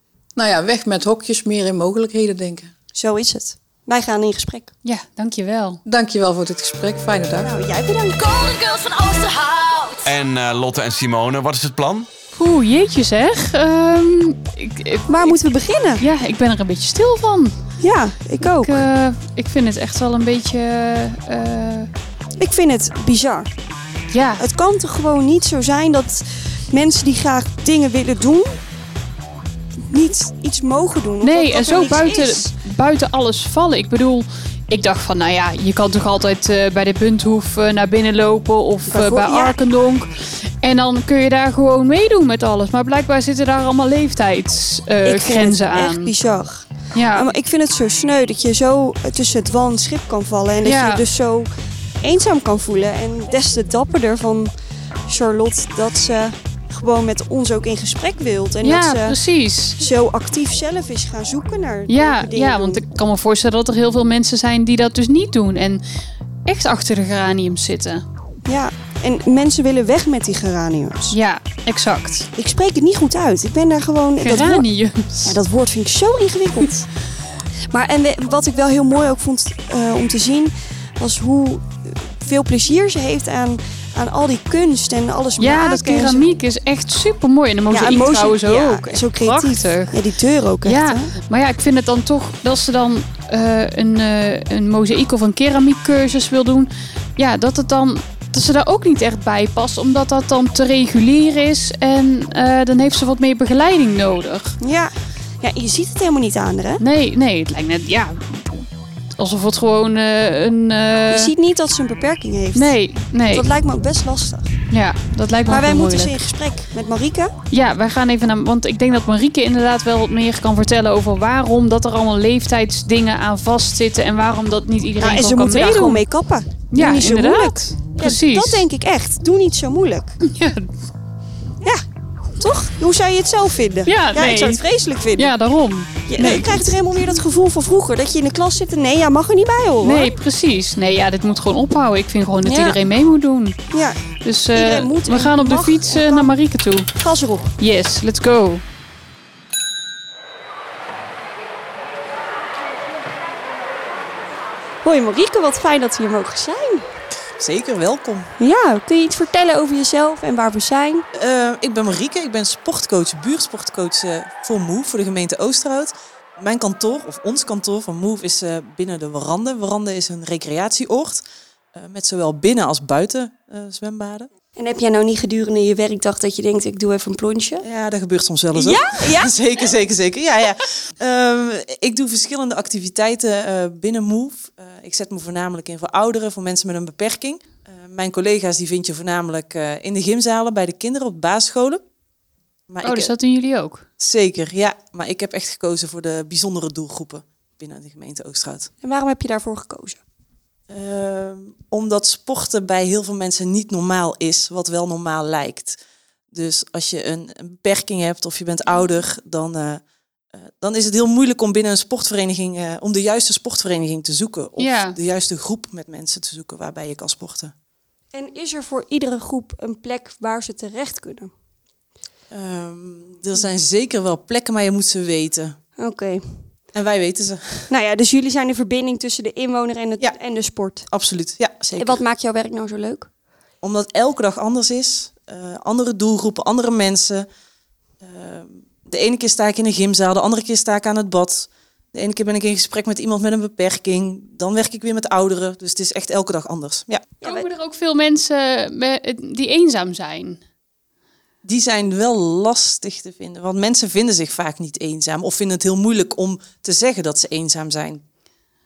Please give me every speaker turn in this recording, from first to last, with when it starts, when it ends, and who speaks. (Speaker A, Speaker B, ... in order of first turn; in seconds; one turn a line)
Speaker A: 0.4-2.7
Speaker B: 3.0-4.7
Speaker C: 4.8-5.8
Speaker A: 5.9-7.5
Speaker B: 7.4-10.0
Speaker D: 10.0-12.1
Speaker C: 12.3-15.4
Speaker B: 15.1-16.0
Speaker C: 16.0-17.6
Speaker B: 17.8-18.8
Speaker C: 18.4-21.9
Speaker B: 22.4-23.5
Speaker C: 24.1-24.4
Speaker B: 24.4-28.6
Speaker B: 29.8-32.5
Speaker C: 31.2-46.1
Speaker B: 38.9-39.5
Speaker B: 45.0-51.5
Speaker C: 46.9-47.3
Speaker C: 50.6-51.0
Speaker B: 52.0-54.5
Speaker B: 55.1-59.2
Speaker C: 58.6-59.8
Speaker B: 59.8-62.8
Speaker C: 61.9-65.8
Speaker C: 66.5-68.0
Speaker B: 68.5-71.2
Speaker C: 71.1-72.3
Speaker B: 72.4-74.6
Speaker C: 74.2-75.4
Speaker B: 75.2-76.9
Speaker B: 77.7-86.2
Speaker C: 85.4-90.0
Speaker B: 87.7-91.1
Speaker C: 90.6-104.6
Speaker B: 104.6-106.8
Speaker C: 106.8-111.3
Speaker B: 111.1-112.8
Speaker C: 112.5-113.5
Speaker B: 113.3-114.6
Speaker C: 114.7-116.2
Speaker B: 115.5-117.3
Speaker C: 117.5-126.0
Speaker B: 125.0-130.2
Speaker C: 126.7-128.7
Speaker C: 130.2-130.7
Speaker B: 132.4-135.3
Speaker C: 133.9-134.6
Speaker C: 135.2-136.8
Speaker B: 136.1-140.1
Speaker C: 139.8-143.6
Speaker B: 142.4-142.8
Speaker B: 143.7-144.0
Speaker C: 144.2-146.9
Speaker B: 144.5-146.3
Speaker B: 146.9-147.6
Speaker C: 147.6-148.6
Speaker B: 154.8-156.9
Speaker E: 157.4-158.3
Speaker B: 158.4-161.1
Speaker E: 161.1-171.2
Speaker E: 171.8-174.3
Speaker B: 174.6-177.6
Speaker E: 177.6-191.8
Speaker B: 178.5-179.3
Speaker E: 192.7-193.1
Speaker C: 192.8-193.9
Speaker E: 194.0-198.7
Speaker B: 198.8-200.0
Speaker E: 200.7-205.8
Speaker E: 206.3-209.8
Speaker E: 210.4-217.5
Speaker C: 214.6-215.0
Speaker B: 218.1-221.3
Speaker E: 222.3-225.6
Speaker B: 225.8-226.5
Speaker E: 226.7-227.7
Speaker B: 227.7-230.9
Speaker E: 230.9-232.0
Speaker B: 231.8-233.1
Speaker E: 233.6-237.2
Speaker E: 238.0-247.1
Speaker B: 247.2-247.5
Speaker C: 247.2-250.4
Speaker E: 251.4-258.0